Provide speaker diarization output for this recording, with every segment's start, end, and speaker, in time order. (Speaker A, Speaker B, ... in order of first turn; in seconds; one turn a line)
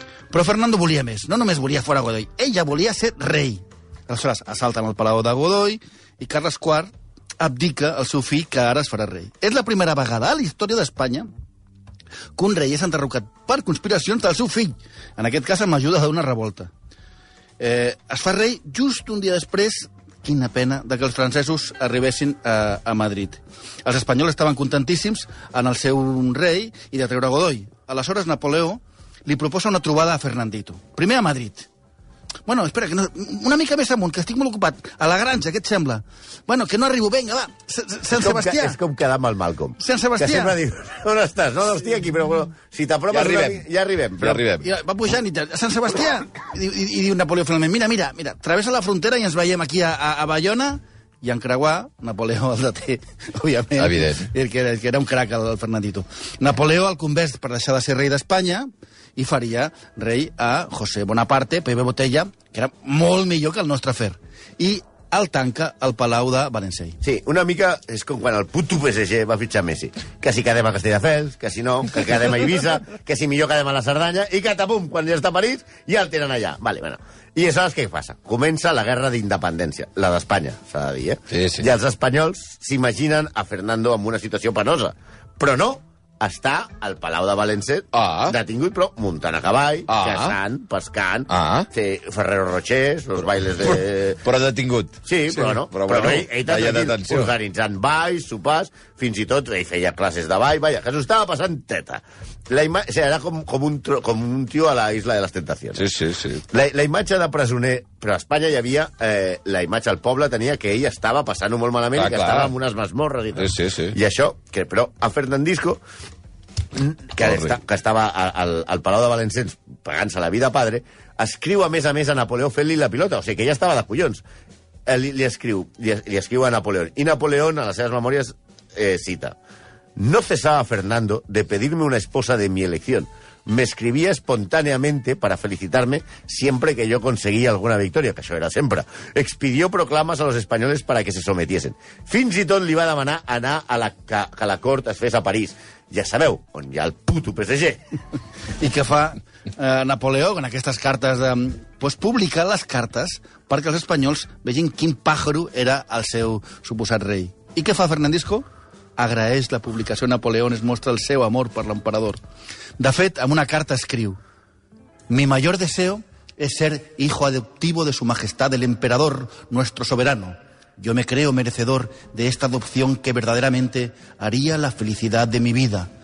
Speaker A: 0.3-11.3
Speaker A: 12.4-16.7
Speaker A: 17.6-31.7
Speaker A: 32.5-38.8
Speaker B: 38.1-44.5
Speaker A: 39.8-40.6
Speaker C: 43.1-43.6
Speaker C: 44.2-44.7
Speaker A: 44.6-67.0
Speaker C: 53.8-54.3
Speaker B: 67.0-94.2
Speaker C: 81.3-81.7
Speaker C: 87.9-88.4
Speaker C: 89.9-90.4
Speaker C: 91.3-91.7
Speaker C: 93.6-97.3
Speaker B: 95.1-105.9
Speaker C: 105.8-106.4
Speaker B: 106.5-115.8
Speaker C: 112.0-112.5
Speaker C: 113.4-114.0
Speaker B: 116.7-124.2
Speaker C: 117.2-117.5
Speaker B: 124.9-129.4
Speaker B: 130.0-147.8
Speaker A: 148.6-158.5
Speaker A: 159.0-162.2
Speaker A: 162.8-164.2
Speaker A: 165.1-175.9